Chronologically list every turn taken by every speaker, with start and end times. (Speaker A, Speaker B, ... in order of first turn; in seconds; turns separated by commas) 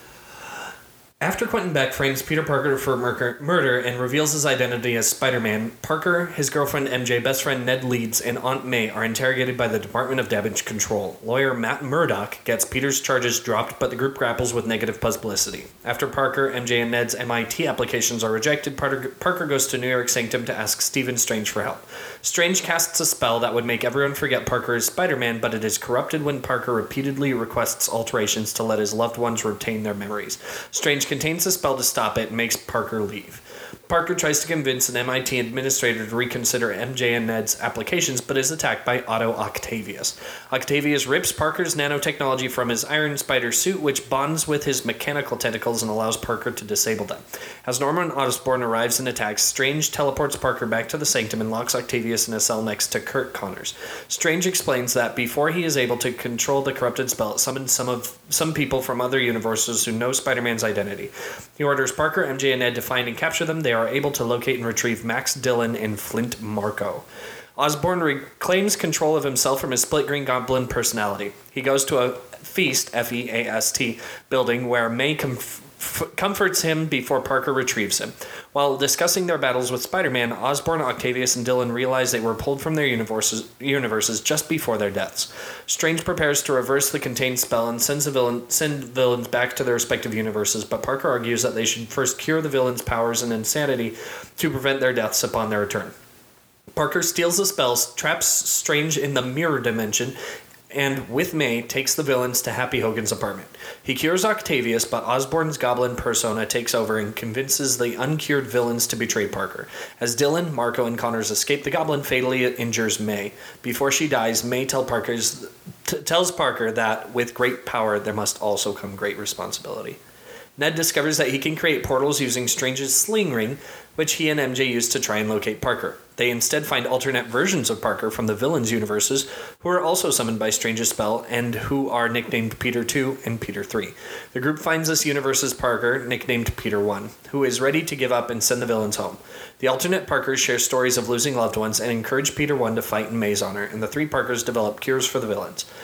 Speaker A: 1.2-67.0, Speaker A: 67.6-96.0, Speaker A: 96.7-100.2, Speaker A: 100.7-120.0, Speaker A: 120.6-145.7